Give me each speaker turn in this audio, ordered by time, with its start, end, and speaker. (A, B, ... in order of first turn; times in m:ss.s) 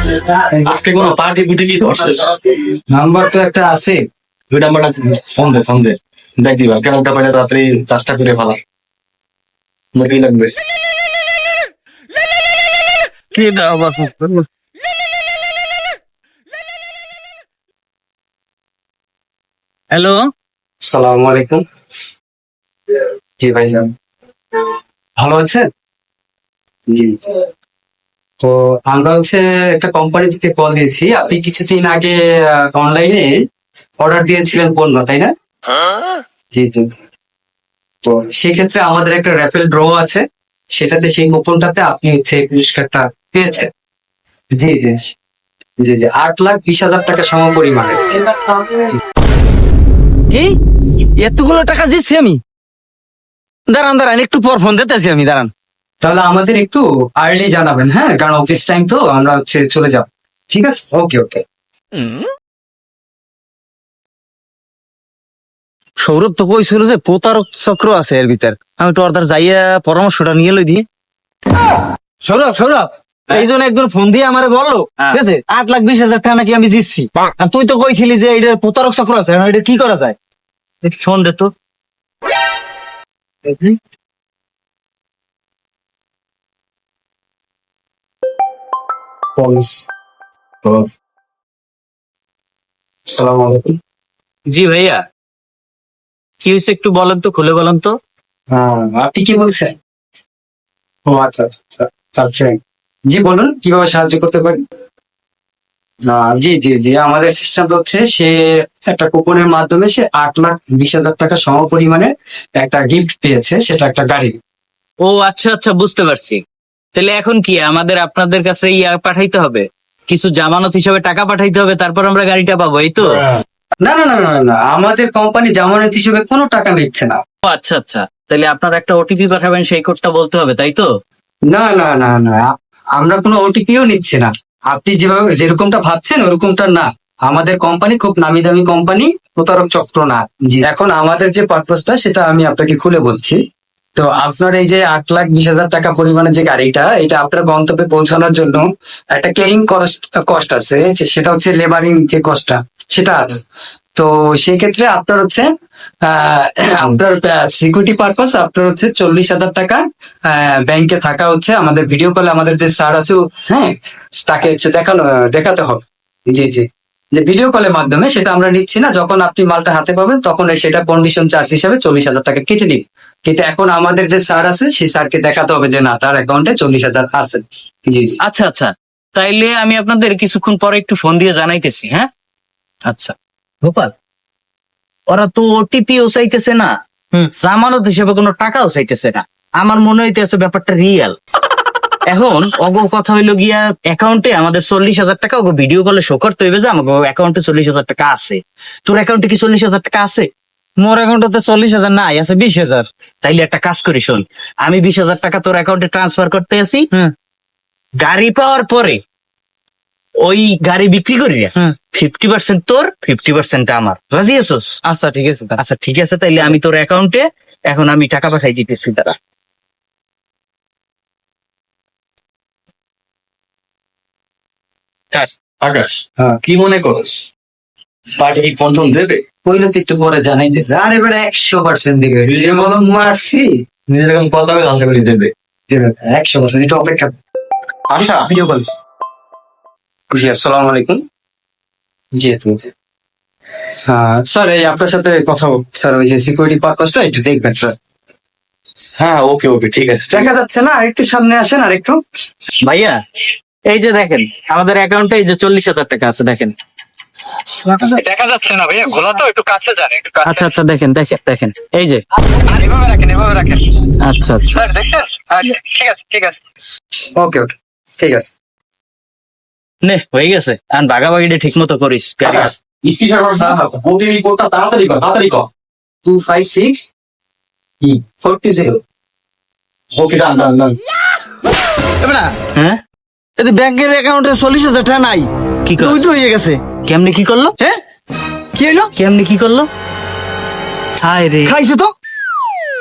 0:00.5-0:00.8 A
0:00.6-0:02.4 B
0:02.9-0:04.0 A
0:04.5-0:08.6 B
0:09.9-0:10.5 B
0:13.3-0:14.4 C
0:19.9-0:20.3 C
0:20.8-0:21.6 A
0:23.4-0:23.9 A
0:25.2-0:25.7 A
0:26.9-0:27.3 A
0:28.4-0:33.3 A
0:34.0-0:35.3 A
0:36.5-0:37.0 A
0:38.0-0:40.2 A
0:40.7-0:43.7 A
0:44.6-0:45.0 A
0:45.8-0:49.0 A
0:50.3-0:50.6 D
0:51.2-0:52.4 D
0:53.7-0:55.5 D
0:56.0-1:01.4 A
1:06.0-1:10.8 D
1:12.2-1:20.2 D
1:20.8-1:21.5 C
1:29.4-1:29.9 A
1:33.1-1:33.8 A
1:34.5-1:35.0 C
1:36.4-1:37.9 C
1:38.5-1:39.7 A
1:41.1-1:42.6 A
1:43.1-1:44.6 A
1:46.1-1:54.3 A
1:55.0-1:56.4 C
1:56.9-2:03.2 C
2:03.8-2:07.2 A
2:07.4-2:10.9 C
2:11.5-2:23.4 A
2:24.0-2:33.4 A
2:33.9-2:35.5 A
2:36.0-2:58.2 A
2:58.2-3:02.1 C
3:02.8-3:03.9 C
3:05.1-3:11.2 C
3:12.1-3:20.3 C
3:20.8-3:22.9 D
3:23.2-3:26.9 C
3:28.0-3:29.0 C
3:30.2-3:34.8 C
3:34.9-3:35.6 D
3:34.9-3:35.2 A
3:35.6-3:39.2 C
3:45.6-3:47.2 B
3:48.2-3:49.2 B
3:49.4-3:53.5 A
3:52.2-3:52.7 B
3:53.9-3:55.3 B
3:55.7-3:57.1 A
3:57.9-3:58.3 B
3:58.2-3:58.7 A
4:00.1-4:01.0 A
4:02.2-4:02.7 A
4:03.8-4:07.7 A
4:09.0-4:10.3 B
4:10.1-4:12.0 A
4:12.6-4:13.0 C
4:13.7-4:16.5 C
4:18.0-4:20.4 E
4:20.2-4:22.0 C
4:22.5-4:23.6 E
4:24.0-4:24.6 C
4:24.6-4:26.3 E
4:27.2-4:28.3 A
4:29.8-4:32.5 C
4:32.2-4:35.5 B
4:33.4-4:33.8 A
4:36.0-4:36.9 A
4:38.2-4:38.8 A
4:39.9-4:40.8 B
4:42.0-4:42.3 D
4:42.5-4:42.8 C
4:43.4-4:46.6 D
4:45.6-4:46.0 C
4:46.8-4:47.5 C
4:48.6-4:48.9 D
4:49.0-4:49.7 C
4:51.0-4:51.6 C
4:51.4-4:51.9 D